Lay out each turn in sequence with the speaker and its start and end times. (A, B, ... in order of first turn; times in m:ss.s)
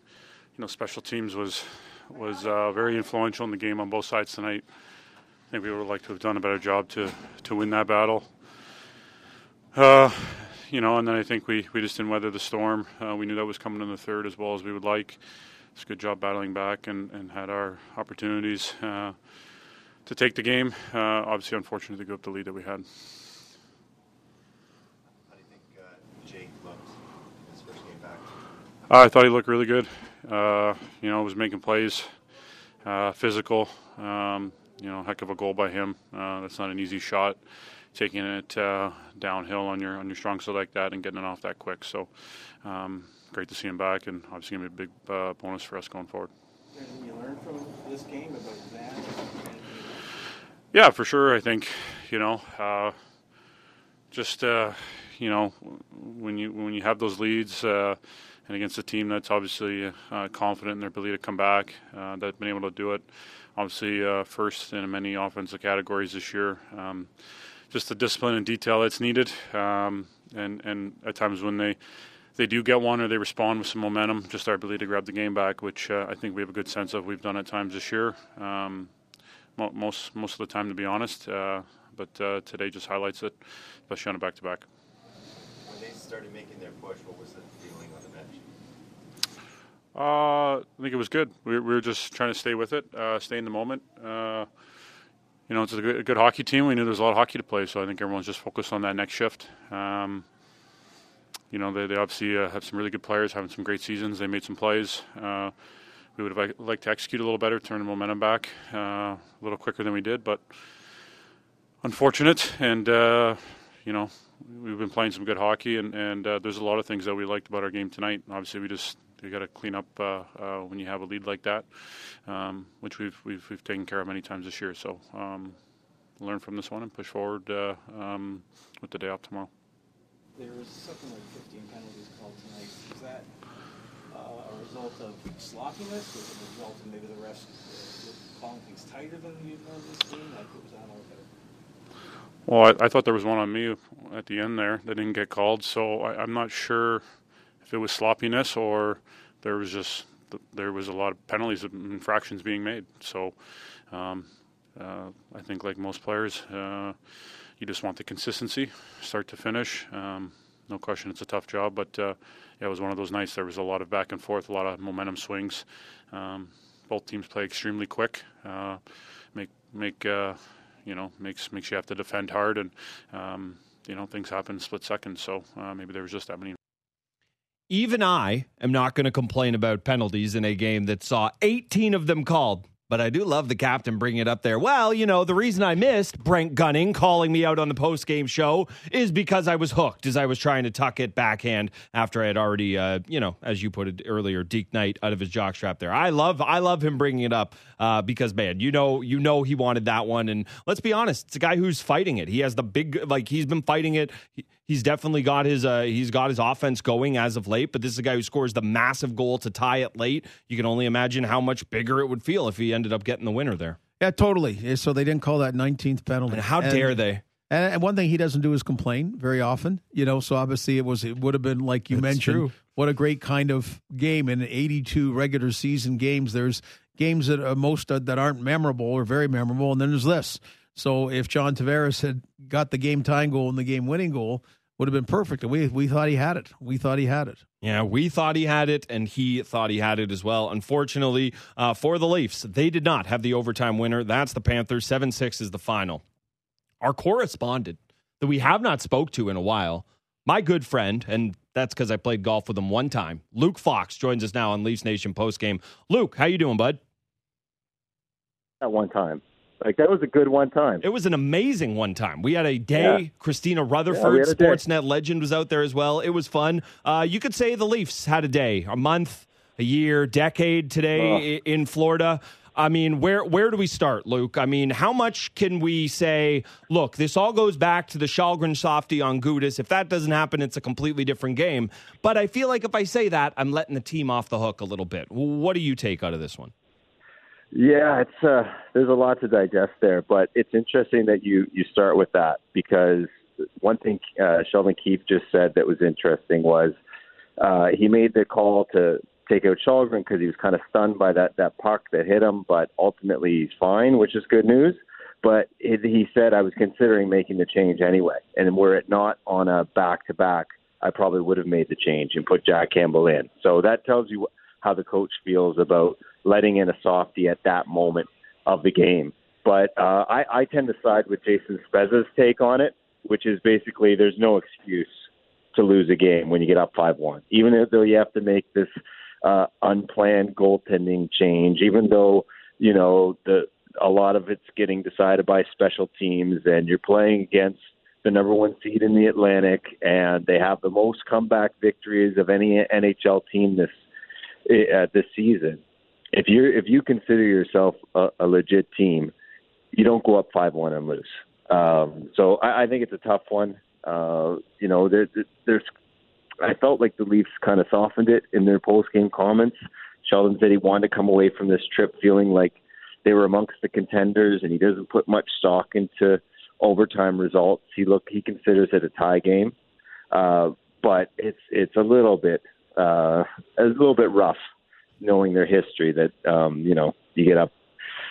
0:00.5-0:04.7 A
0:05.5-0:08.3 A
0:09.7-0:15.2 A
0:15.7-0:19.4 A
0:20.0-0:23.1 A
0:25.2-0:28.4 B
0:28.9-0:32.1 A
0:32.8-0:46.3 A
0:46.7-0:50.1 C
0:50.7-0:53.0 A
0:54.1-1:11.8 A
1:12.3-1:18.9 A
1:19.5-1:24.6 A
1:25.6-1:28.4 B
1:29.9-1:34.5 A
1:35.5-1:40.3 A
1:41.5-1:45.6 A
1:46.1-1:50.8 A
1:51.8-2:09.5 A
2:10.3-2:13.3 C
2:14.1-2:21.3 C
2:22.5-2:27.0 A
2:27.6-2:56.6 A
2:57.7-3:33.8 D
3:34.0-3:57.4 E
3:36.3-3:37.2 D
3:41.9-3:42.5 D
3:57.6-4:06.0 D
4:06.8-4:16.8 D
4:18.6-4:20.8 F
4:20.8-4:46.5 D
4:23.9-4:24.6 F
4:30.9-4:31.2 F
4:47.5-4:56.8 F
4:57.4-5:24.9 F
5:25.5-5:28.7 F
5:29.2-5:43.7 F
5:44.5-5:45.6 F
5:46.1-5:49.1 F
5:49.7-5:55.6 F
5:56.4-6:09.5 F
6:10.1-6:14.4 F
6:15.0-6:17.5 F